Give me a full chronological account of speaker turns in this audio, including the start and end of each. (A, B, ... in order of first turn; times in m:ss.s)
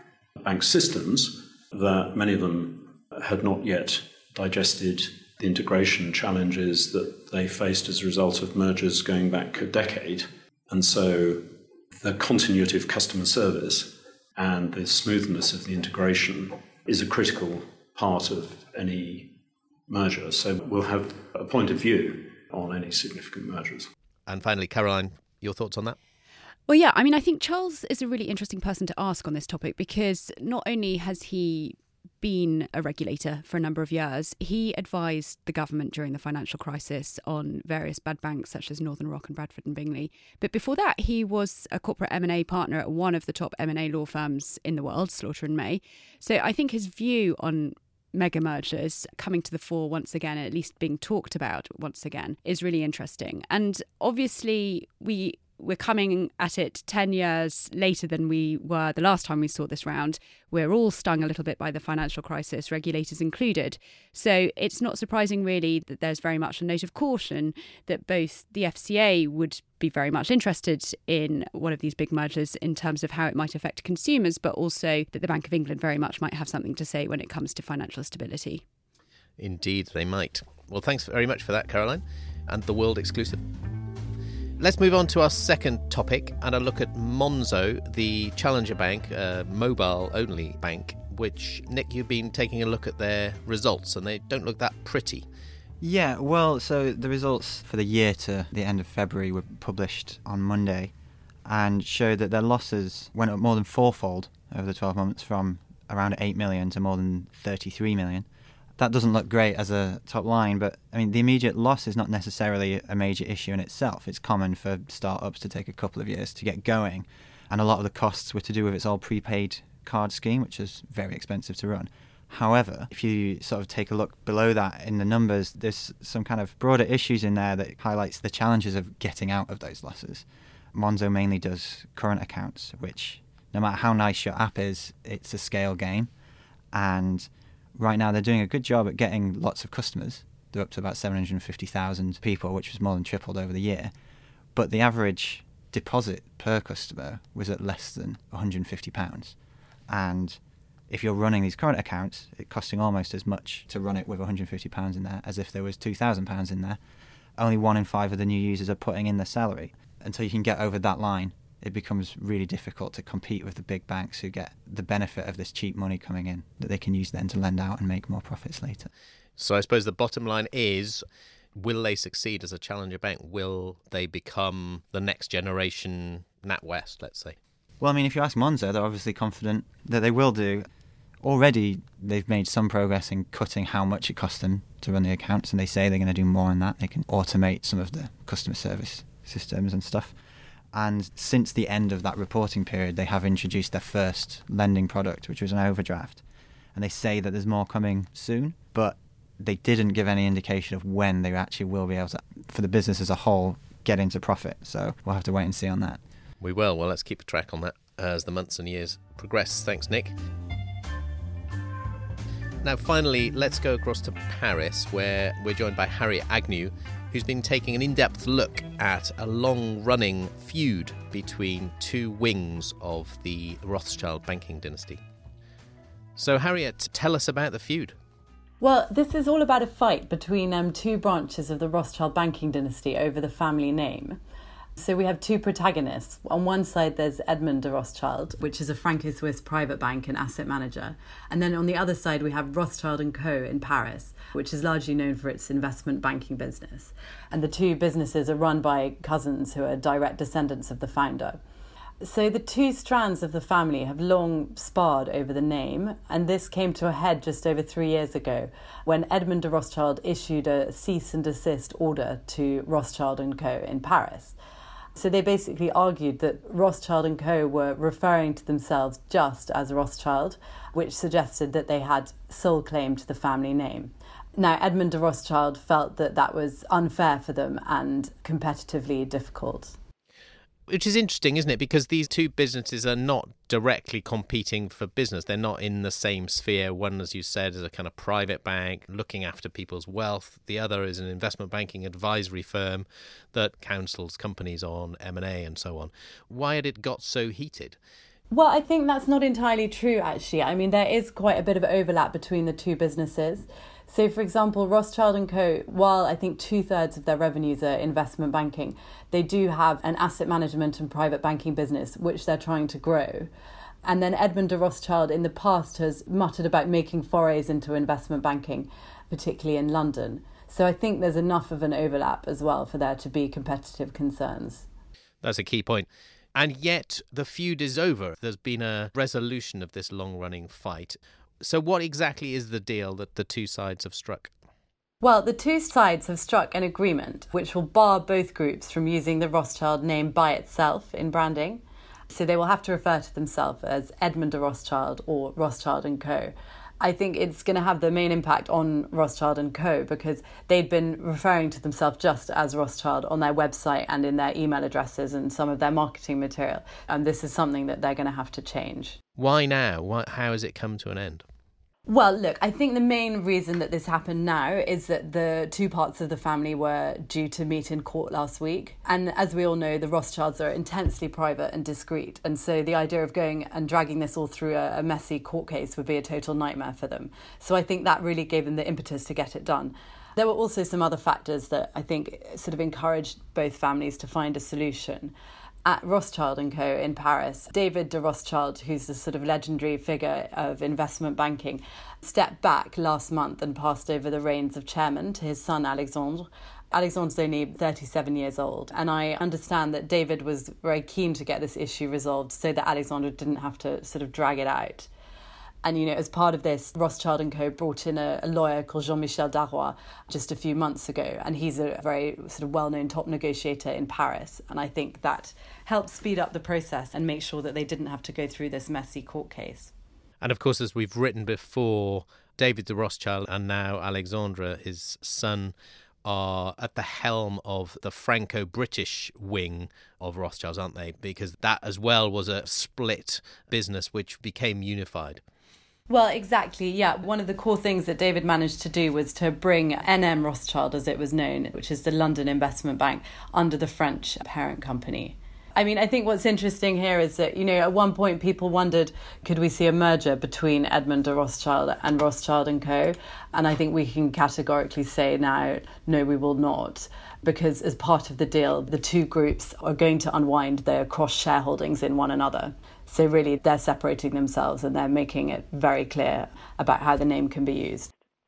0:00.4-0:11.4 A
0:12.0-0:19.3 A
0:19.9-0:23.9 A
0:24.3-0:26.0 B
0:26.7-1:18.6 C
1:19.4-1:23.4 B
1:24.6-1:35.2 B
1:35.8-1:40.9 D
1:41.4-1:48.2 D
1:48.8-2:16.1 D
2:16.7-2:23.9 D
2:24.6-2:29.4 D
2:29.9-2:36.8 D
2:37.4-2:48.9 D
2:49.4-2:51.0 B
2:51.6-2:57.4 B
2:57.8-3:00.7 D
3:01.2-3:10.1 D
3:10.7-3:16.2 D
3:16.8-3:26.0 D
3:26.4-3:30.1 B
3:32.6-3:45.0 B
3:46.2-3:47.9 B
3:48.6-3:54.2 E
3:54.8-4:11.4 E
4:12.0-4:24.4 E
4:25.0-4:39.8 E
4:40.7-4:57.8 B
4:58.3-5:13.3 E
5:13.8-5:24.6 E
5:25.2-5:34.3 B
5:35.0-5:59.0 E
5:59.2-6:01.2 B
6:01.9-6:25.1 E
6:25.6-6:44.9 E
6:45.6-6:59.7 E
7:00.2-7:05.5 B
7:06.0-7:15.2 B
7:15.9-7:47.9 E